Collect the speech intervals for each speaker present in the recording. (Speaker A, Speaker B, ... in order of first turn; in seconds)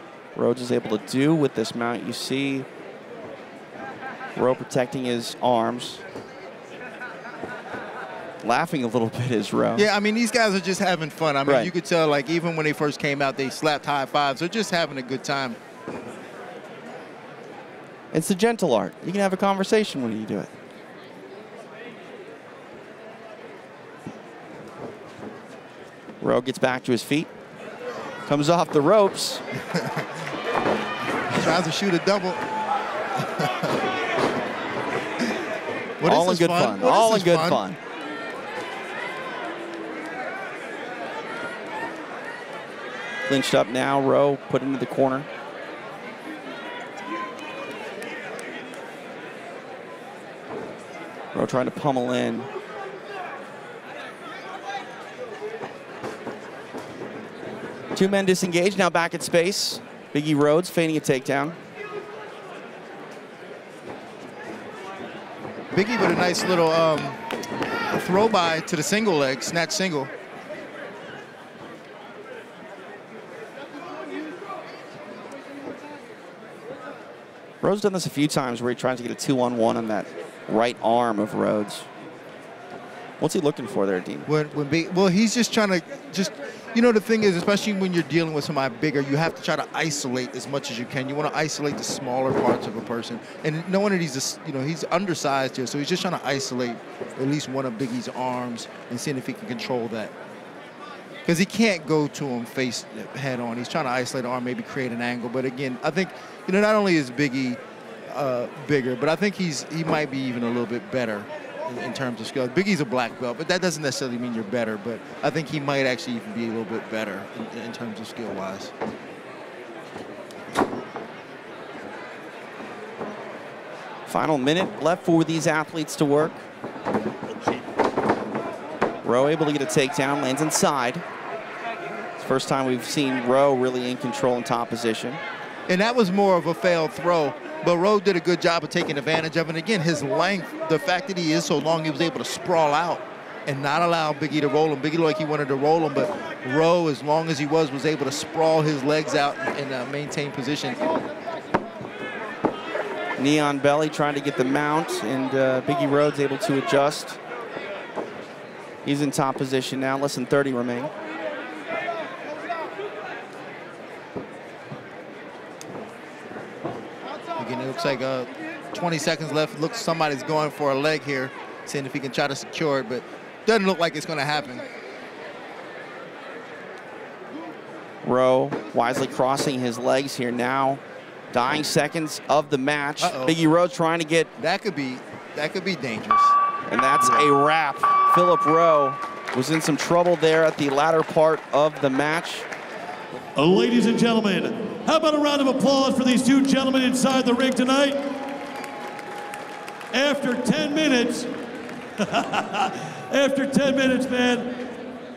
Speaker A: 0.3-2.7, 4.4-6.0, 8.4-9.9, 11.4-11.7, 18.1-20.5, 26.2-27.3, 28.3-29.4, 36.0-37.8, 43.3-45.3, 51.3-52.5, 57.9-61.6, 77.6-81.9, 83.2-84.3, 124.1-126.4, 129.0-131.1, 132.2-135.2, 153.2-157.2, 158.8-160.9, 178.0-184.3, 186.7-192.5
Speaker B: 9.8-15.6, 29.6-30.2, 31.3-32.5, 33.2-33.8, 36.0-37.6, 65.7-67.2, 67.9-70.1, 84.3-100.1, 101.2-118.7, 135.7-150.8, 167.4-174.7, 183.0-183.4, 184.4-186.4, 186.9-187.3
Speaker C: 193.3-198.2, 199.9-201.3, 202.0-204.6